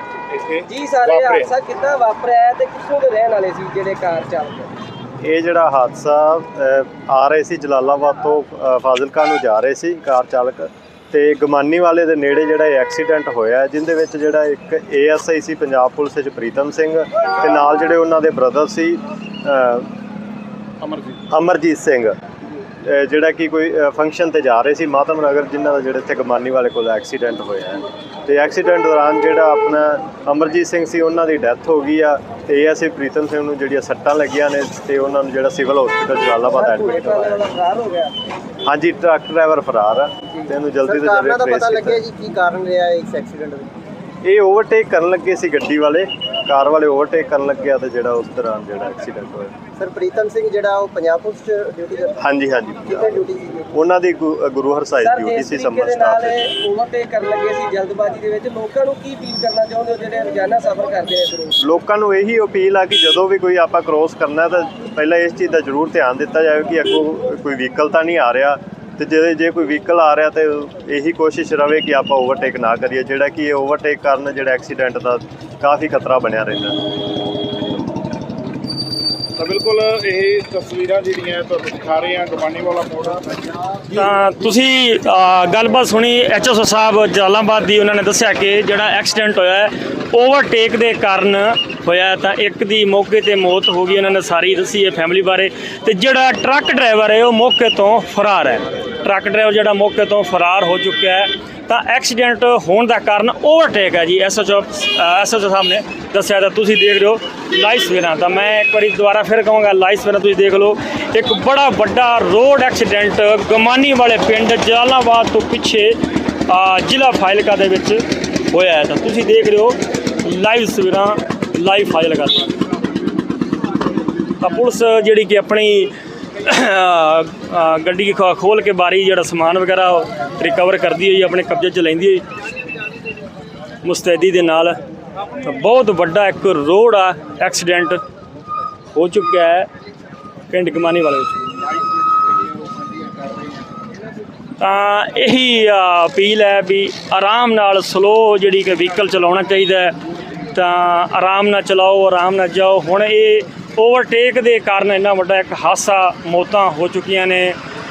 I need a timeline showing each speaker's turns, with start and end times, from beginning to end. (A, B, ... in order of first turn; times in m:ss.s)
0:00.3-0:01.6 A
0:00.7-0:04.7 B
0:05.2-0:19.9 C
0:20.8-0:21.2 A
0:21.3-0:22.2 C
0:22.8-0:37.5 C
0:36.6-0:38.1 B
0:38.7-0:42.0 C
0:40.8-0:43.7 D
0:44.2-0:49.6 C
0:49.8-0:52.2 D
0:52.2-0:53.2 C
0:52.9-0:53.7 D
0:53.7-0:56.5 C
0:55.0-1:01.6 B
1:01.6-1:16.8 C
1:19.4-1:23.4 A
1:23.9-2:02.5 E
2:04.4-2:12.2 E
2:13.8-2:14.8 E
2:15.4-2:18.0 E
2:18.9-2:19.7 E
2:20.5-2:21.4 E
2:24.6-2:30.0 E
2:30.5-2:37.6 E